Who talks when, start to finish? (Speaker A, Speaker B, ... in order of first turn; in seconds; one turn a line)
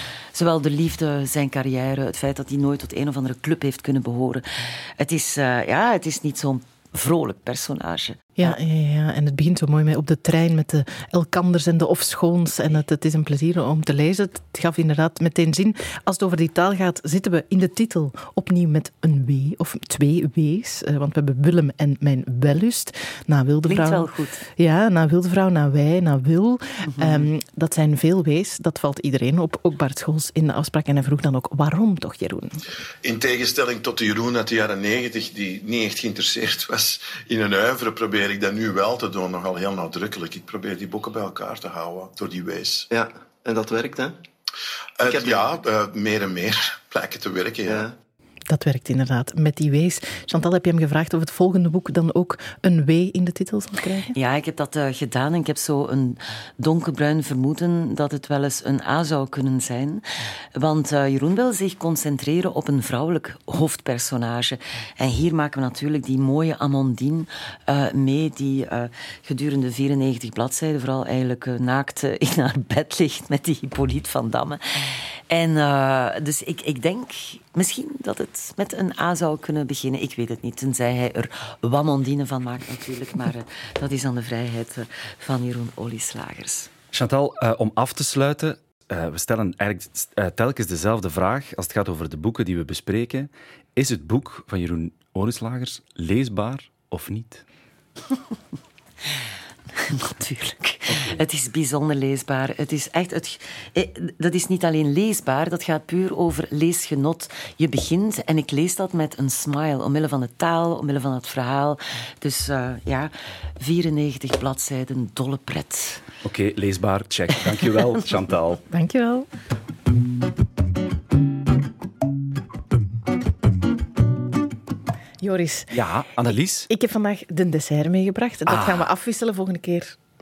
Speaker A: 0.3-8.5
Speaker B: 8.4-32.6
Speaker A: 23.7-24.4
Speaker A: 26.9-27.3
Speaker C: 33.0-42.9
Speaker D: 42.9-44.2
Speaker C: 45.0-47.9
Speaker D: 45.1-45.5
Speaker D: 47.7-47.9
Speaker B: 48.5-54.1
Speaker A: 54.1-86.7
Speaker E: 86.9-97.4
Speaker A: 99.7-116.0
Speaker E: 116.2-118.6
Speaker B: 118.7-119.3
Speaker B: 125.2-125.8
Speaker E: 125.7-126.7
Speaker B: 126.7-130.0
Speaker E: 128.5-128.9